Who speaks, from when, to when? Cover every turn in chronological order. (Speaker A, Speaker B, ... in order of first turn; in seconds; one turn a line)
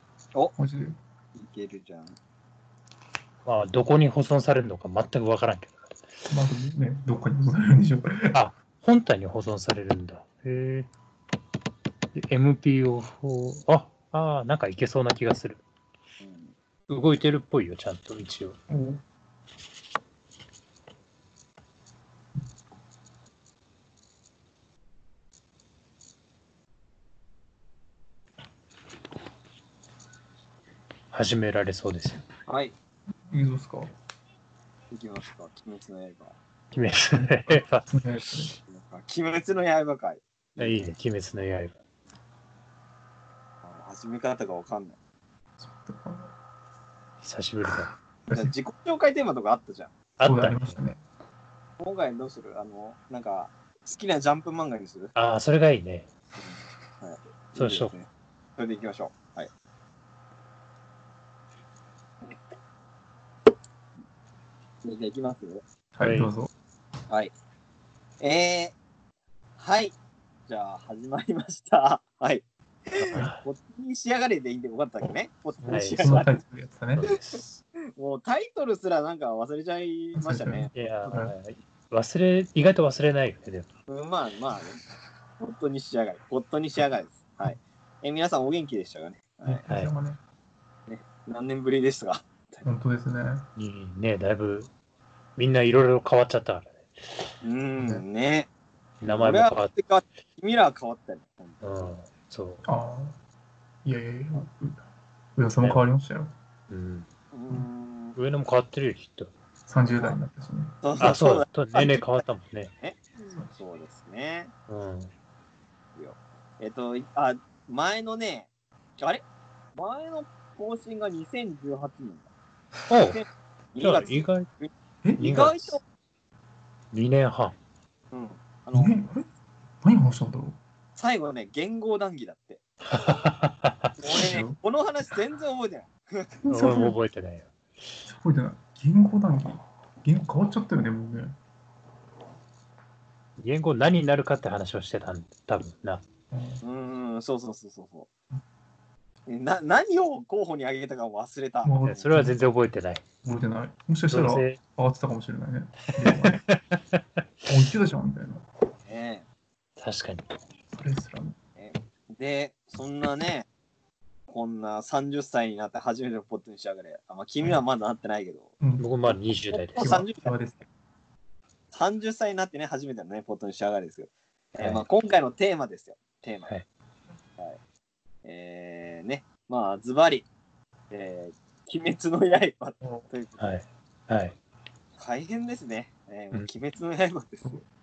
Speaker A: 0.6-1.0
Speaker B: 1.4-2.2
Speaker C: 3.5-6.0
Speaker A: 6.3-8.4
Speaker C: 8.3-10.9
Speaker C: 12.1-15.6
Speaker B: 16.2-16.5
Speaker C: 16.9-18.6
Speaker A: 18.7-19.0
Speaker C: 31.1-32.2
Speaker B: 32.5-32.7
Speaker A: 33.3-33.9
Speaker B: 34.9-36.4
Speaker C: 36.7-37.9
Speaker A: 37.1-38.5
Speaker B: 38.7-40.9
Speaker C: 40.6-41.8
Speaker B: 43.6-45.0
Speaker A: 45.6-46.3
Speaker C: 47.2-47.9
Speaker A: 47.7-48.5
Speaker B: 48.3-50.0
Speaker C: 50.2-50.8
Speaker A: 50.2-51.0
Speaker B: 51.8-55.1
Speaker C: 55.1-56.1
Speaker B: 56.4-59.5
Speaker C: 57.6-57.9
Speaker B: 64.8-65.6
Speaker A: 66.0-66.5
Speaker C: 66.0-66.3
Speaker B: 68.2-68.8
Speaker B: 69.6-70.0
Speaker B: 70.5-76.4
Speaker C: 73.0-73.4
Speaker A: 75.0-77.1
Speaker C: 75.7-76.2
Speaker C: 77.0-77.6
Speaker B: 77.0-77.4
Speaker B: 78.0-80.8
Speaker A: 80.2-81.3
Speaker C: 80.8-83.7
Speaker B: 83.9-84.8
Speaker B: 85.4-89.7
Speaker A: 89.5-90.2
Speaker B: 90.9-92.7
Speaker A: 92.6-93.5
Speaker C: 93.6-94.7
Speaker C: 95.4-97.2
Speaker B: 97.4-98.5
Speaker A: 97.8-98.0
Speaker C: 99.0-99.7
Speaker B: 99.1-101.9
Speaker C: 101.6-102.6
Speaker A: 102.7-103.2
Speaker A: 103.8-104.8
Speaker A: 105.4-106.3
Speaker C: 105.6-105.8
Speaker C: 106.7-107.1
Speaker B: 107.3-108.2
Speaker C: 108.2-109.3
Speaker A: 109.7-110.8
Speaker B: 110.8-112.2
Speaker C: 111.0-112.7
Speaker B: 112.8-114.5
Speaker C: 114.7-115.1
Speaker B: 116.0-119.2
Speaker B: 119.8-122.3
Speaker C: 122.9-123.2
Speaker B: 123.0-125.8
Speaker C: 123.8-124.5
Speaker A: 125.0-125.3
Speaker C: 125.2-125.8
Speaker C: 126.9-127.6
Speaker B: 128.1-129.0
Speaker A: 128.7-129.3
Speaker A: 129.8-130.6
Speaker B: 131.0-132.6
Speaker C: 132.9-133.9
Speaker B: 134.0-136.3
Speaker A: 134.2-134.6
Speaker A: 136.4-137.0
Speaker C: 136.5-137.5
Speaker A: 138.1-141.4
Speaker C: 143.4-146.0
Speaker A: 146.3-146.6
Speaker B: 146.6-148.1
Speaker B: 149.3-151.8
Speaker A: 151.6-152.4
Speaker C: 151.9-153.0
Speaker A: 153.2-156.4
Speaker C: 154.1-154.6
Speaker C: 156.1-157.0
Speaker A: 157.5-158.4
Speaker B: 158.8-159.3
Speaker C: 159.8-160.3
Speaker A: 160.7-161.4
Speaker B: 161.6-163.5
Speaker B: 164.3-168.5
Speaker A: 168.6-168.9
Speaker C: 168.8-170.0
Speaker B: 169.5-170.4
Speaker A: 169.8-170.7
Speaker B: 171.7-176.5
Speaker C: 174.6-174.8
Speaker B: 178.2-180.3
Speaker B: 180.9-183.4
Speaker A: 182.8-183.1
Speaker C: 183.4-184.3
Speaker B: 185.0-187.6